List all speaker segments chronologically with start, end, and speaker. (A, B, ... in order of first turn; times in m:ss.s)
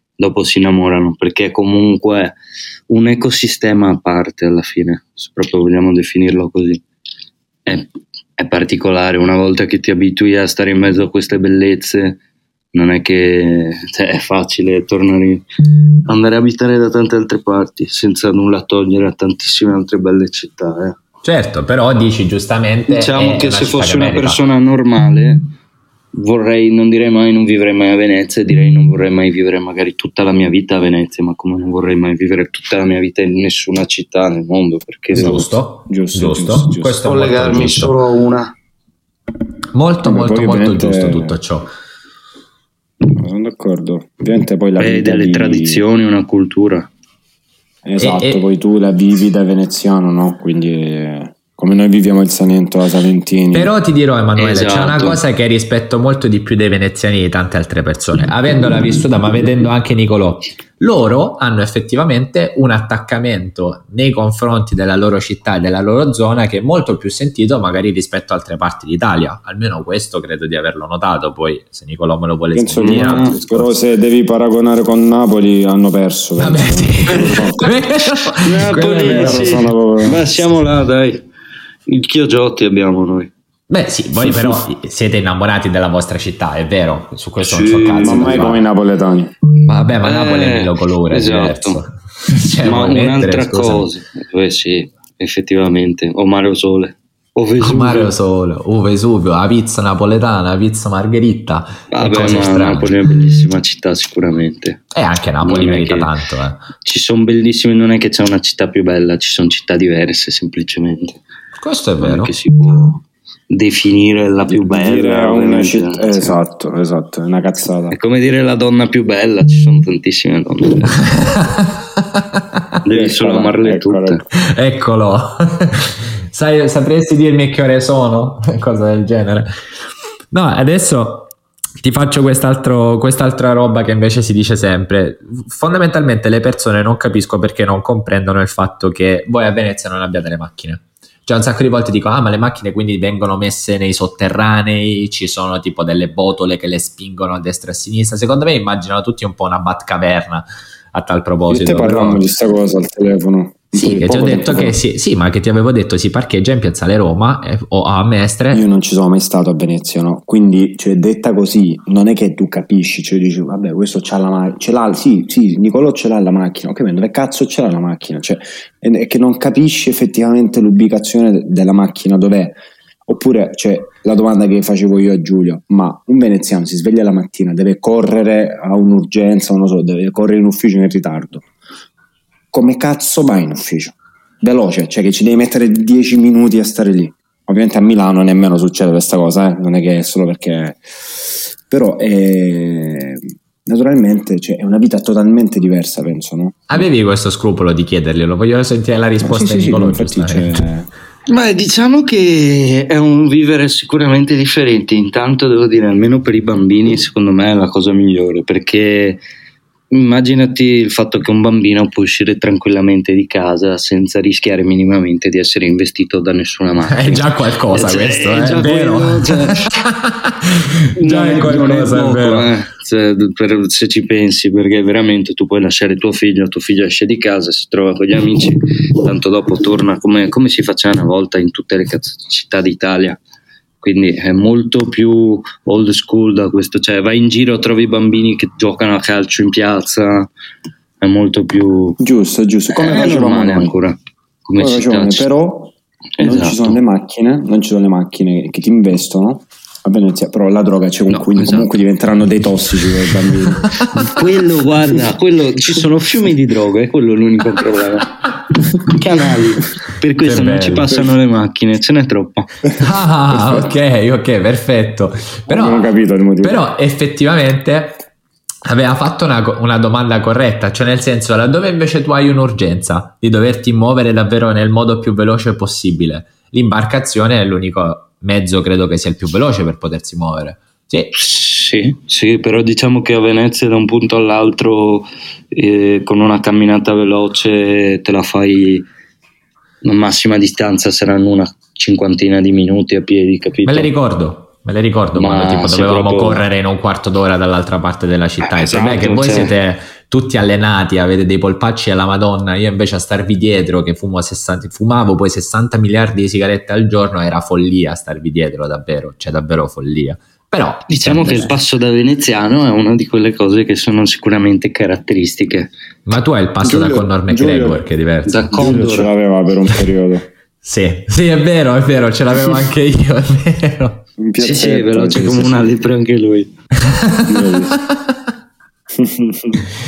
0:00.2-0:02.4 A
0:02.9-0:06.8 A
0:07.7-0:12.2 A
0:12.7-0:15.5 A
0:16.0-0:21.0 A
0:21.2-0:24.4 B
0:22.9-0:25.5 A
0:26.1-0:35.4 A
0:35.1-0:37.9 B
0:35.2-0:37.0 C
0:37.0-0:38.5 A
0:39.8-0:41.7 B
0:40.0-0:41.4 C
0:43.1-0:45.8 C
0:44.8-0:46.9 A
0:47.8-0:53.7 C
0:48.0-0:48.4 B
0:53.5-1:13.8 B
0:54.4-0:55.2 A
1:12.6-1:17.6 C
1:12.8-1:13.4 A
1:16.4-1:19.6 B
1:18.4-1:21.2 A
1:18.8-1:20.4 C
1:21.9-1:23.3 A
1:23.7-1:28.6 B
1:24.2-1:24.6 C
1:27.4-1:28.6 A
1:28.0-1:29.3 C
1:29.6-1:33.9 B
1:30.0-1:31.8 A
1:32.6-1:38.1 A
1:37.6-1:43.0 B
1:41.9-1:44.8 A
1:44.9-1:46.7 B
1:45.4-1:46.1 A
1:46.8-1:51.2 A
1:51.6-1:52.3 B
1:52.0-1:56.4 A
1:54.4-1:58.0 C
1:57.9-2:01.1 A
2:01.1-2:02.7 B
2:02.8-2:04.2 A
2:02.9-2:04.2 C
2:04.3-2:09.5 B
2:10.3-2:32.3 B
2:31.5-2:34.8 C
2:33.7-2:38.6 B
2:38.5-3:01.4 C
3:02.5-3:16.8 C
3:16.7-3:20.7 B
3:19.2-3:20.9 C
3:21.3-3:29.2 A
3:29.9-3:39.7 A
3:36.8-3:42.5 B
3:41.0-3:53.2 A
3:53.8-4:00.3 A
4:01.0-4:02.0 A
4:02.0-4:03.8 C
4:02.7-4:04.0 A
4:04.5-4:05.3 A
4:04.6-4:14.2 C
4:06.2-4:06.8 A
4:11.1-4:11.7 A
4:13.6-4:14.1 B
4:14.1-4:18.2 A
4:18.8-4:22.5 A
4:20.2-4:21.0 B
4:22.8-4:25.9 B
4:23.3-4:23.7 C
4:25.5-4:26.6 C
4:26.4-4:28.0 B
4:28.6-4:41.2 B
4:41.2-4:48.9 A
4:49.8-4:53.9 A
4:53.6-5:11.5 B
4:55.2-4:56.4 A
4:58.4-4:59.5 A
5:10.9-5:15.7 A
5:16.1-5:18.7 B
5:16.6-5:17.8 C
5:18.3-5:19.1 A
5:18.5-5:20.3 C
5:20.6-5:24.0 B
5:24.2-5:25.6 C
5:24.4-5:26.5 A
5:26.8-5:28.2 B
5:27.3-5:27.8 C
5:28.9-5:29.6 C